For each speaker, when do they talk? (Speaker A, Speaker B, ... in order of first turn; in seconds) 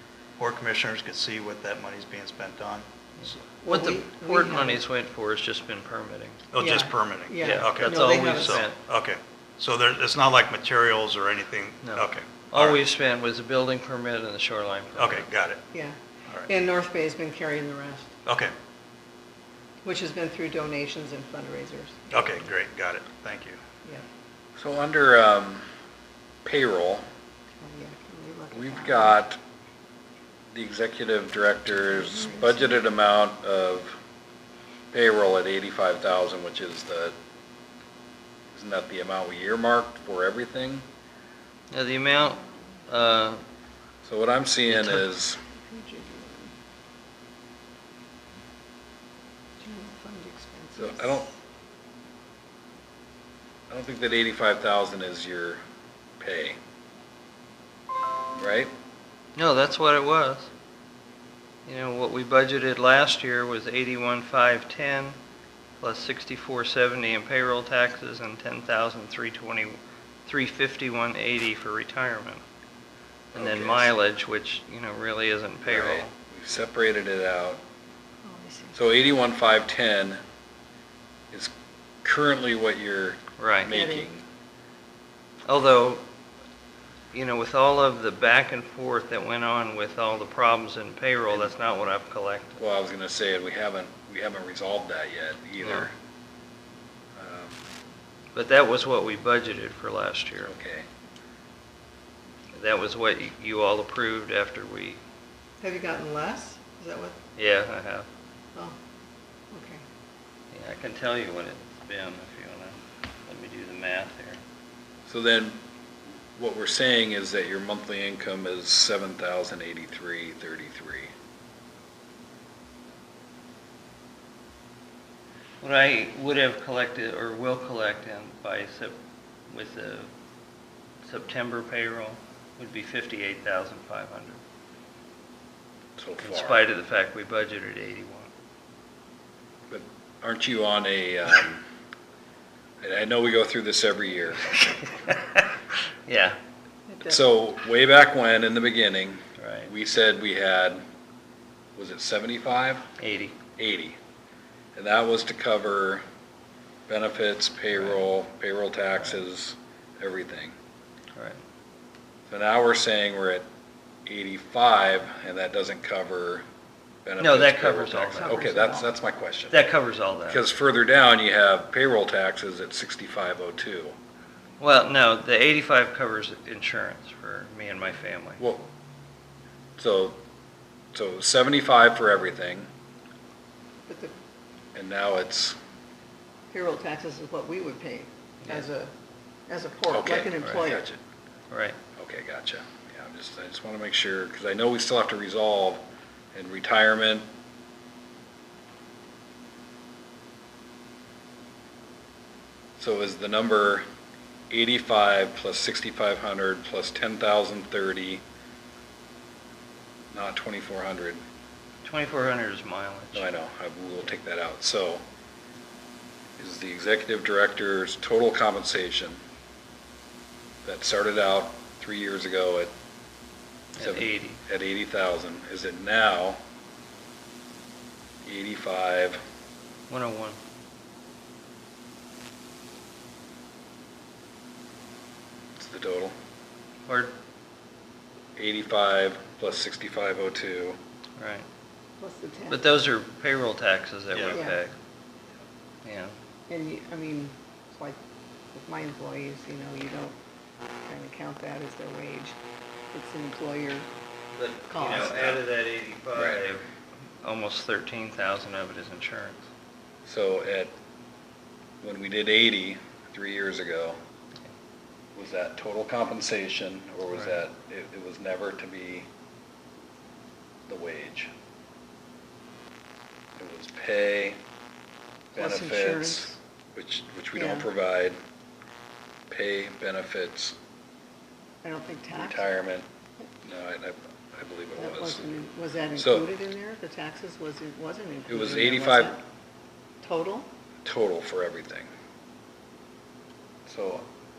Speaker A: 0.4-3.4, 6.5-12.8, 15.0-15.6, 18.2-18.5, 22.1-23.6, 244.1-244.4
Speaker B: 3.6-6.4, 7.4-8.8, 11.8-15.3, 41.7-43.4, 44.7-45.0, 59.4-60.5, 61.7-65.2, 65.8-72.4, 73.3-76.1, 83.4-83.7, 85.5-86.0, 87.1-92.6, 95.6-95.9, 98.3-100.5, 102.5-105.0, 107.4-108.1, 110.5-114.4, 125.6-128.9, 129.5-130.1, 131.0-134.4, 136.2-138.3, 144.6-145.5, 146.1-146.4, 149.4-149.7, 153.0-153.4, 157.7-158.1, 167.2-168.4, 169.5-170.4, 174.6-178.4, 191.5-191.8, 211.8-213.3, 223.8-224.4, 229.9-230.4, 236.9-237.2, 241.2-241.5, 242.5-244.7, 245.8-246.2, 254.4-256.6, 257.2-259.4, 267.1-267.4
Speaker C: 3.6-4.8, 6.6-8.7, 15.7-18.1, 19.8-22.2, 27.6-29.2, 31.9-32.7, 45.5-46.5, 49.6-51.1, 78.2-78.8, 83.7-84.1, 105.6-107.2, 109.5-109.8, 146.9-147.2, 168.2-168.9, 183.9-184.1, 186.5-188.9, 189.5-190.9, 242.0-242.8, 244.3-244.6, 246.5-248.0, 248.5-250.2, 250.9-252.3, 252.9-253.9, 254.7-255.4, 275.4-276.4, 277.3-277.7, 281.6-282.5, 284.8-289.2, 290.0-290.5
Speaker D: 24.6-25.7, 26.4-27.1, 28.5-29.4, 30.5-34.0, 34.9-37.1, 38.5-40.8, 44.0-45.4, 50.8-51.3, 53.7-55.6, 56.2-56.6, 58.3-58.7, 73.3-73.9, 75.7-77.6, 78.7-80.2, 82.0-84.2, 92.6-95.9, 97.2-97.6, 100.4-100.9, 115.1-115.6, 116.3-121.1, 136.0-136.7, 139.7-141.7, 142.8-144.6, 147.0-150.8, 151.8-152.9, 153.6-154.0, 154.8-156.0, 156.9-160.5, 162.3-163.4, 164.1-166.4, 167.1-169.7, 170.3-173.9, 178.4-178.7, 179.8-180.2, 180.9-182.7, 184.8-185.6, 189.9-191.0, 192.0-197.3, 202.8-203.8, 204.5-208.2, 210.1-211.2, 213.1-215.0, 216.4-219.2, 220.6-222.7, 223.8-226.4, 228.2-229.2, 235.6-236.1, 238.4-240.8, 256.1-256.4, 260.1-260.7, 261.8-264.0, 265.1-269.1, 270.7-271.3, 273.4-274.4, 275.4-278.2, 279.3-280.6, 282.1-282.9, 283.4-285.2, 286.0-286.3, 288.3-289.2, 290.8-291.9, 293.7-294.1